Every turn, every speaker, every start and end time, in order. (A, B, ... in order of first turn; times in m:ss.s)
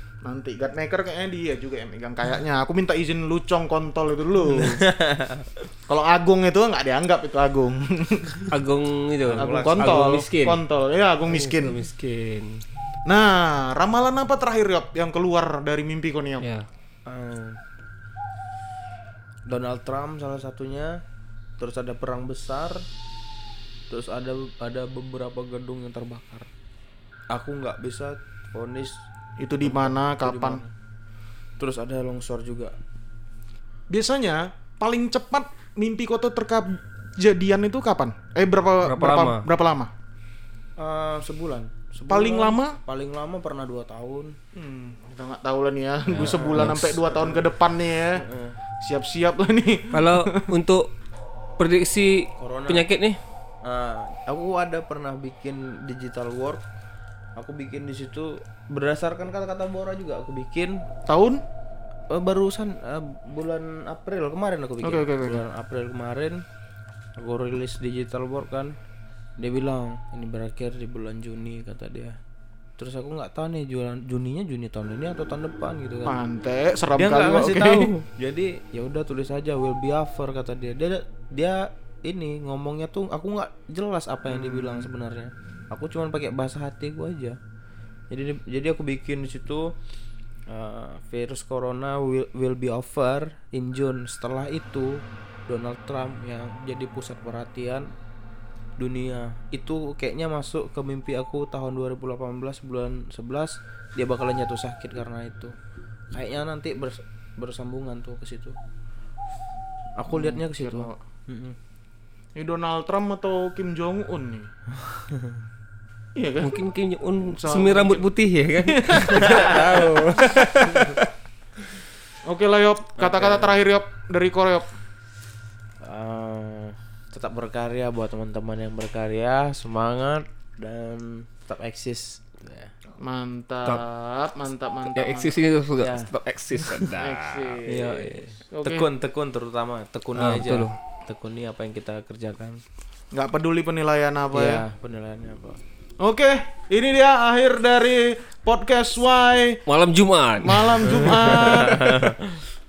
0:00.2-0:04.8 A
0:04.5-0:05.6 B
0:05.9-0:08.5 A
0:08.5-0:10.6 C
0:09.3-0:10.1 B
0:09.4-0:11.8 A
0:11.3-0:12.6 C
0:13.1-0:16.4 A
0:16.4-0:16.7 C
0:17.1-0:17.6 B
0:19.5-0:21.0 B
0:21.6-0:22.8 B
0:23.9-0:26.5 B
0:27.3-0:29.0 B
0:29.4-0:30.6 A
0:29.6-0:30.7 B
0:31.6-0:32.8 B
0:33.9-0:39.9 A
0:38.8-0:39.4 C
0:40.8-0:44.4 B
0:42.1-0:42.8 A
0:44.6-0:48.2 A
0:46.1-0:47.5 B
0:46.1-0:47.0 C
0:48.2-0:48.6 B
0:48.8-0:50.4 A
0:49.9-0:50.9 C
0:51.6-0:53.2 C
0:52.4-0:52.9 B
0:53.6-0:56.6 B
0:57.4-1:00.9 B
1:01.1-1:01.4 A
1:02.1-1:06.4 B
1:04.8-1:05.4 A
1:07.2-1:08.8 B
1:09.4-1:12.2 B
1:12.8-1:16.2 B
1:16.1-1:17.9 A
1:17.0-1:27.4 B
1:24.3-1:24.9 A
1:28.1-1:29.7 B
1:30.5-1:37.9 B
1:38.8-1:45.6 B
1:46.1-1:48.6 B
1:50.0-1:51.6 B
1:50.1-1:51.0 A
1:52.4-1:54.5 A
1:54.7-1:55.4 B
1:56.2-1:56.6 A
1:56.4-2:01.1 C
1:57.2-1:58.1 A
1:58.6-1:59.9 A
1:59.2-1:59.5 B
2:02.2-2:04.7 A
2:03.0-2:03.6 B
2:05.8-2:12.7 B
2:13.0-2:15.4 A
2:14.9-2:17.6 C
2:15.8-2:16.1 B
2:16.9-2:18.9 A
2:17.7-2:22.6 B
2:20.2-2:20.8 C
2:23.1-2:24.6 A
2:24.3-2:25.6 B
2:26.0-2:29.6 A
2:29.7-2:32.1 C
2:30.4-2:32.0 A
2:31.4-2:32.4 B